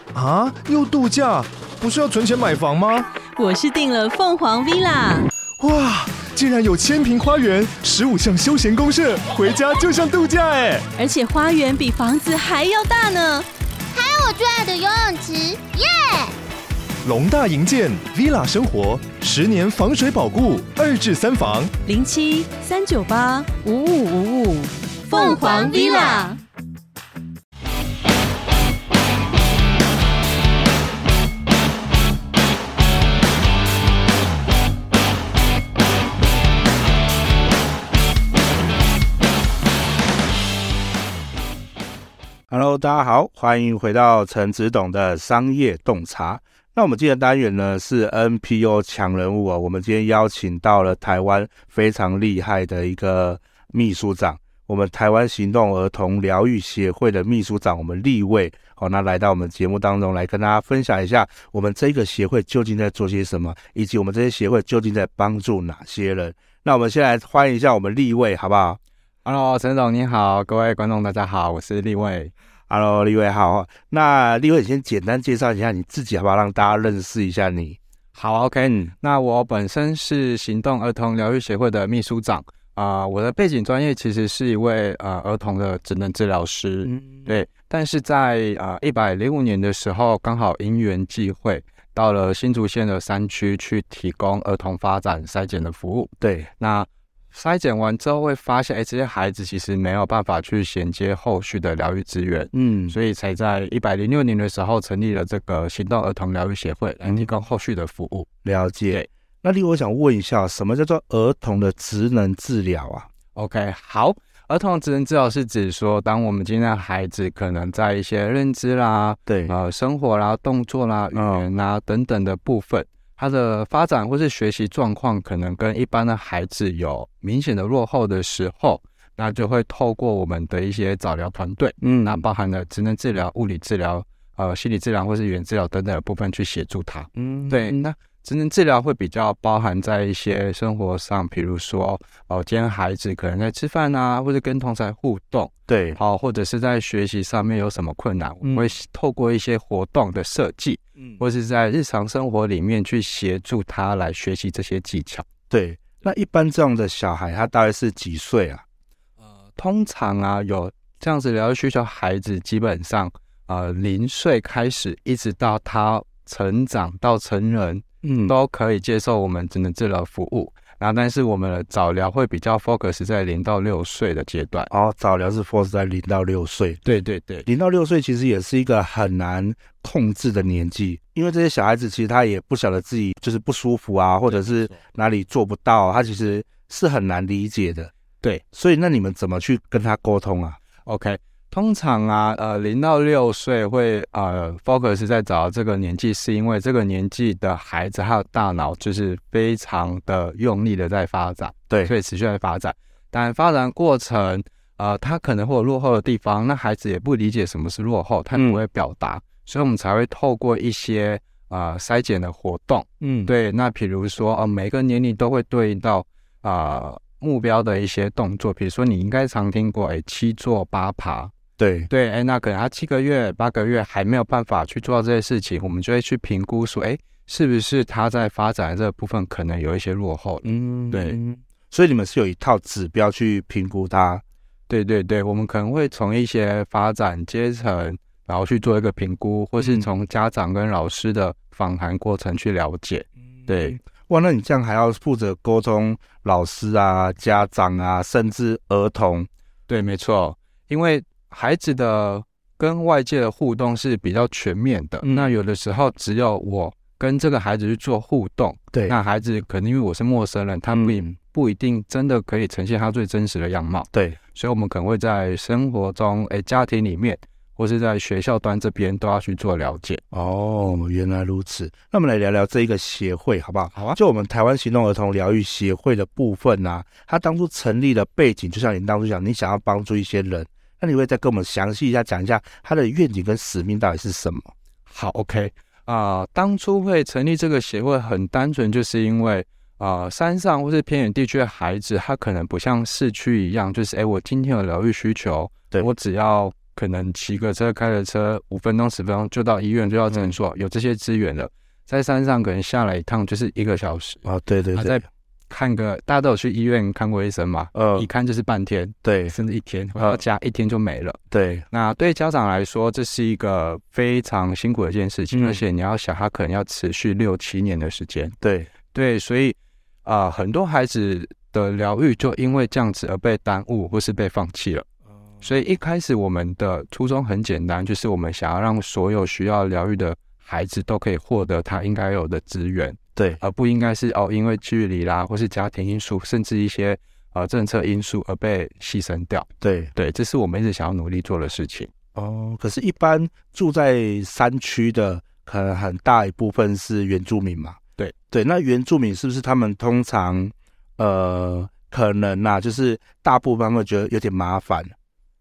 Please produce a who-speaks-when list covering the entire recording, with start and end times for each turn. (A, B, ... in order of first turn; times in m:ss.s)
0:00.1-0:03.1 A
0:03.4-0:05.3 B
0:05.6-0:10.9 A
0:11.0-0:13.5 B
0:13.9-0:16.3 C
0:17.0-0:21.7 A
0:21.9-0:26.4 B
0:25.1-0:26.4 C
0:42.5-1:08.8 D
1:09.2-1:12.3 E
1:12.7-1:17.8 D
1:18.2-1:48.3 E
1:18.7-1:18.9 D
1:26.8-1:27.3 D
1:36.2-1:36.5 D
1:42.5-1:43.0 D
1:48.4-1:53.1 D
1:53.4-2:35.2 E
1:59.3-1:59.6 D
2:01.1-2:01.4 D
2:11.8-2:12.2 D
2:17.2-2:17.8 D
2:25.7-2:26.0 D
2:28.4-2:28.7 D
2:35.5-2:38.6 D
2:39.6-2:54.7 E
2:48.0-2:48.3 D
2:54.7-2:56.8 D
2:56.8-2:57.5 E
2:57.5-3:07.9 D
3:04.3-3:04.7 E
3:08.5-3:10.6 D
3:10.8-3:41.3 E
3:28.3-3:28.6 D
3:33.0-3:33.3 D
3:41.6-3:41.9 D
3:41.9-3:51.2 E
3:50.4-3:54.2 D
3:54.7-4:03.8 E
3:59.6-3:59.9 D
4:03.4-4:09.3 D
4:09.7-4:30.0 E
4:15.0-4:15.3 D
4:20.7-4:21.1 D
4:23.9-4:24.2 D
4:30.1-4:44.5 D
4:44.9-5:11.2 E
5:04.2-5:05.0 D
5:07.7-5:08.1 D
5:09.0-5:09.4 D
5:11.3-5:11.7 D
5:11.7-5:18.4 E
5:15.3-5:15.6 D
5:18.4-5:18.7 D
5:18.9-5:24.9 E
5:25.4-5:41.9 E
5:39.6-5:39.9 D
5:42.2-5:47.8 D
5:48.3-5:55.0 D